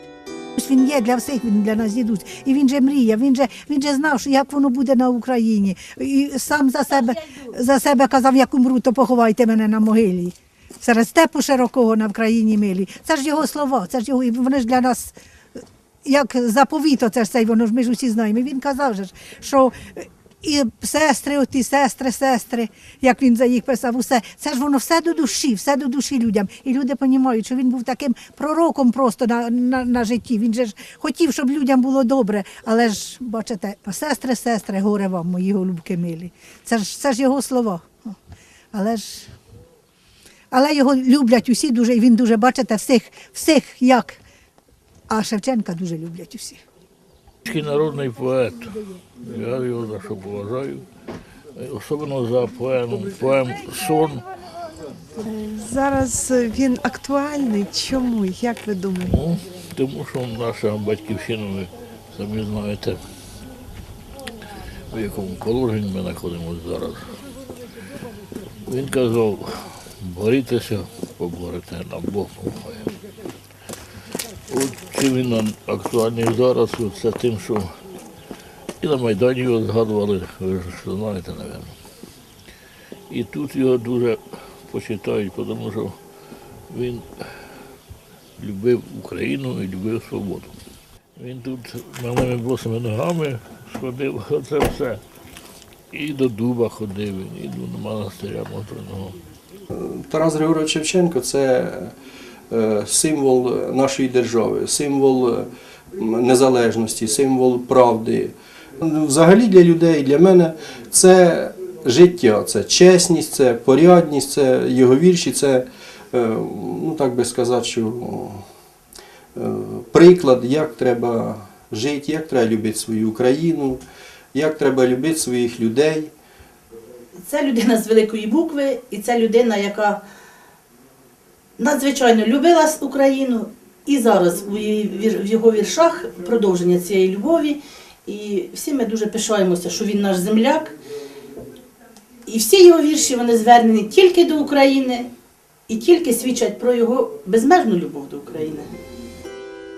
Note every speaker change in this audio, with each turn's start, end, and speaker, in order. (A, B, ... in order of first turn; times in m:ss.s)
0:00.6-0:15.1 A
0:16.0-0:38.1 A
0:38.7-0:39.3 A
0:40.5-0:44.2 A
0:45.1-0:46.6 A
0:47.4-0:50.8 B
0:51.6-0:54.2 B
0:55.3-0:59.0 C
0:59.0-1:03.0 B
1:04.9-1:07.0 B
1:08.7-1:12.9 B
1:14.5-1:17.7 B
1:18.8-1:21.7 B
1:23.1-1:26.0 B
1:26.7-1:27.0 B
1:28.4-1:30.5 B
1:31.2-1:35.0 B
1:35.9-1:39.2 B
1:39.7-1:41.9 D
1:42.5-1:58.4 D
1:59.3-2:03.8 D
2:04.3-2:06.1 D
2:07.2-2:10.0 E
2:11.6-2:20.7 E
2:22.2-2:25.1 E
2:25.7-2:28.7 E